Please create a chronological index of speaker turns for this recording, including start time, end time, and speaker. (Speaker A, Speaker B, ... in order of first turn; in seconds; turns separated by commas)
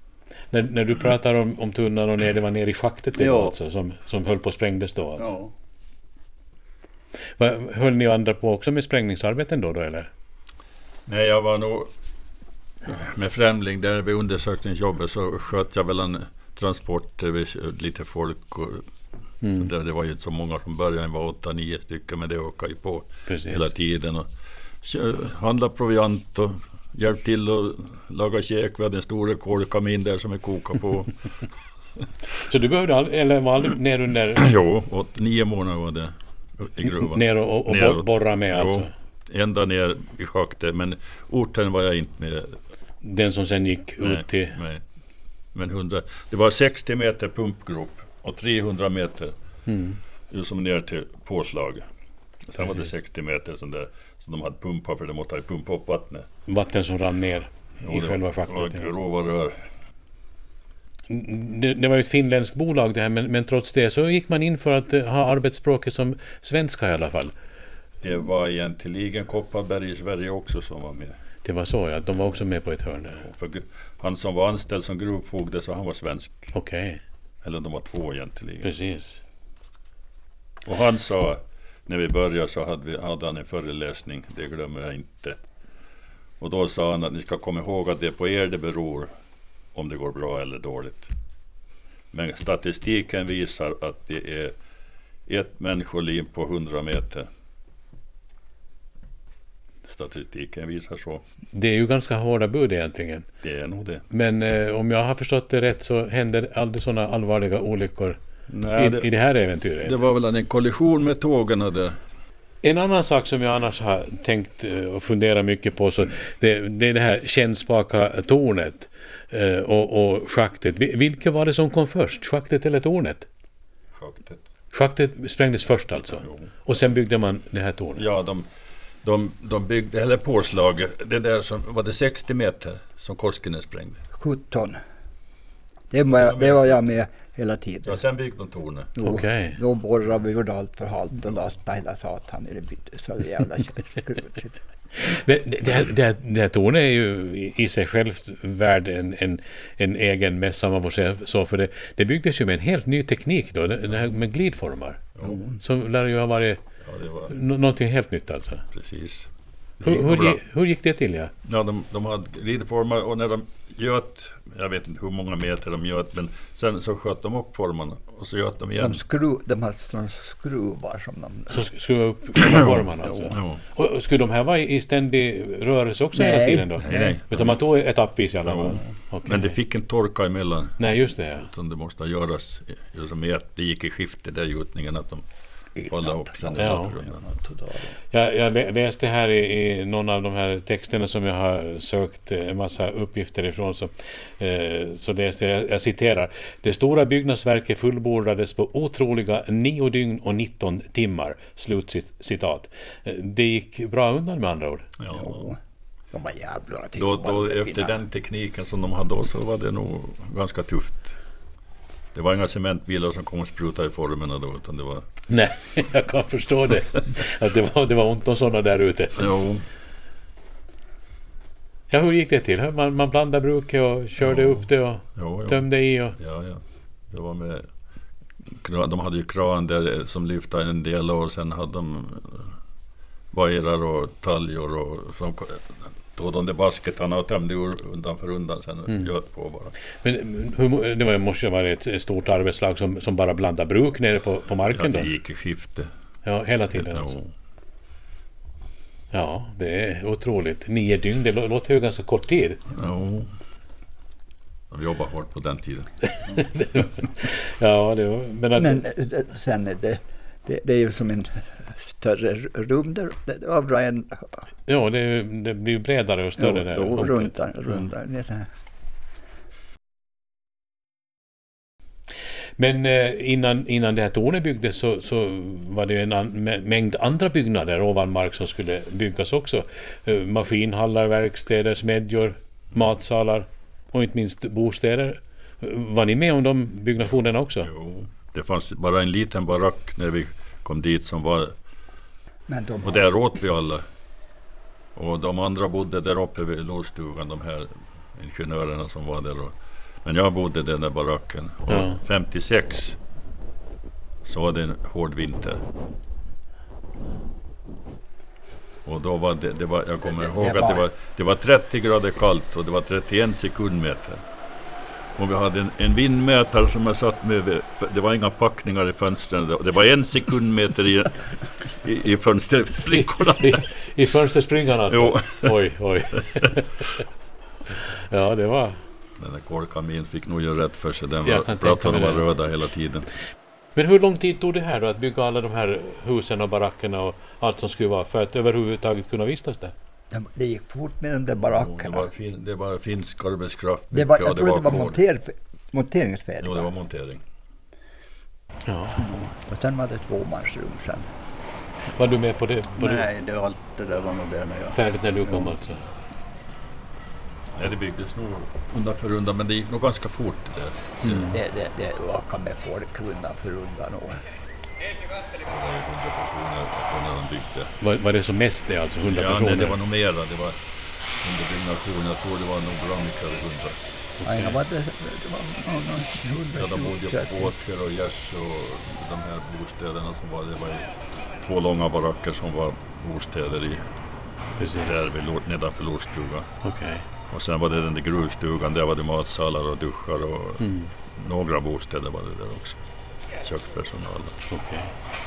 Speaker A: 0.5-5.3, Speaker B: 3.1-3.5, Speaker B: 5.2-5.5, Speaker A: 7.4-10.1, Speaker C: 11.1-11.9, Speaker C: 12.8-18.8, Speaker A: 19.4-19.7, Speaker C: 19.5-24.3, Speaker A: 23.3-23.6, Speaker C: 24.8-31.2, Speaker A: 32.4-34.5, Speaker C: 34.4-42.6, Speaker A: 36.9-38.9, Speaker A: 43.0-44.6, Speaker C: 44.0-44.8, Speaker C: 45.5-49.3, Speaker A: 49.7-50.0, Speaker C: 50.3-51.9, Speaker C: 52.5-56.3, Speaker A: 56.5-58.9, Speaker C: 57.8-59.6, Speaker A: 61.1-67.3, Speaker C: 68.0-71.2, Speaker A: 71.4-73.2, Speaker C: 73.2-76.5, Speaker A: 76.5-77.0, Speaker C: 77.4-78.7, Speaker A: 78.6-79.2, Speaker C: 80.6-85.4, Speaker C: 86.4-89.1, Speaker C: 89.7-91.1, Speaker C: 92.1-94.5, Speaker C: 95.3-97.3, Speaker C: 99.8-101.2, Speaker A: 101.5-103.2, Speaker C: 103.4-104.0, Speaker A: 104.1-108.2, Speaker C: 108.5-109.1, Speaker A: 108.7-109.9, Speaker C: 109.8-112.0, Speaker A: 112.6-123.3, Speaker C: 123.9-124.4, Speaker A: 124.7-128.0, Speaker C: 126.2-126.5, Speaker C: 128.0-128.5, Speaker C: 129.0-134.0, Speaker D: 134.2-134.8, Speaker D: 135.9-138.0, Speaker C: 136.2-136.7, Speaker C: 137.9-138.9, Speaker D: 138.9-144.5, Speaker A: 139.0-139.6, Speaker A: 144.9-156.6, Speaker C: 156.8-157.3, Speaker A: 157.3-158.6, Speaker C: 158.7-159.3, Speaker C: 159.8-160.4, Speaker A: 159.8-161.3, Speaker C: 161.4-169.0, Speaker D: 168.8-171.6, Speaker A: 171.5-179.5, Speaker C: 172.4-173.6, Speaker D: 176.1-177.2, Speaker C: 176.8-177.6, Speaker C: 178.4-180.8, Speaker A: 180.8-181.5, Speaker C: 181.4-185.2, Speaker D: 185.8-186.6, Speaker C: 185.8-187.2, Speaker A: 186.6-187.0, Speaker D: 187.3-187.9, Speaker A: 188.1-204.9, Speaker C: 205.0-205.5, Speaker D: 205.1-205.6, Speaker D: 206.1-207.9, Speaker C: 207.0-211.2, Speaker C: 212.1-215.1, Speaker A: 215.3-219.3, Speaker C: 219.2-219.6, Speaker A: 221.9-226.2, Speaker C: 224.3-224.6, Speaker C: 225.1-225.6, Speaker C: 226.2-227.7, Speaker C: 228.6-232.5, Speaker C: 233.3-239.7, Speaker A: 240.0-245.1, Speaker C: 244.7-245.9, Speaker A: 246.2-247.2, Speaker C: 246.8-247.3, Speaker A: 249.1-252.6, Speaker C: 252.7-253.3, Speaker C: 254.7-255.9, Speaker A: 256.3-258.8, Speaker D: 258.6-264.4, Speaker A: 264.7-267.3, Speaker D: 266.4-268.5, Speaker A: 272.6-287.7, Speaker C: 287.6-291.5, Speaker D: 292.5-293.1, Speaker C: 292.8-293.8, Speaker C: 294.9-303.0, Speaker A: 301.7-302.0, Speaker C: 304.2-305.6, Speaker C: 308.9-314.2, Speaker D: 310.1-310.8, Speaker C: 315.2-323.6, Speaker A: 323.4-326.9, Speaker C: 324.9-325.5, Speaker A: 327.8-328.8, Speaker C: 329.2-333.1, Speaker A: 331.2-332.2, Speaker A: 333.7-339.7, Speaker D: 340.1-342.1, Speaker C: 341.5-345.0, Speaker D: 343.9-346.7, Speaker C: 346.4-347.2, Speaker A: 348.6-349.0, Speaker D: 349.0-351.1, Speaker A: 351.9-353.1, Speaker B: 352.8-354.8, Speaker A: 354.7-355.8, Speaker D: 355.2-355.5, Speaker C: 357.5-361.3, Speaker A: 361.0-361.3, Speaker D: 361.3-364.2, Speaker C: 365.4-367.7, Speaker A: 367.8-369.8, Speaker C: 369.1-370.6, Speaker C: 371.2-373.8, Speaker A: 374.2-374.5, Speaker D: 374.2-377.5, Speaker C: 376.6-380.9, Speaker C: 381.4-383.8, Speaker A: 384.6-385.0, Speaker C: 384.8-386.5, Speaker A: 386.6-387.0, Speaker C: 387.3-392.8, Speaker A: 390.6-390.9, Speaker C: 393.4-394.4, Speaker A: 394.5-394.9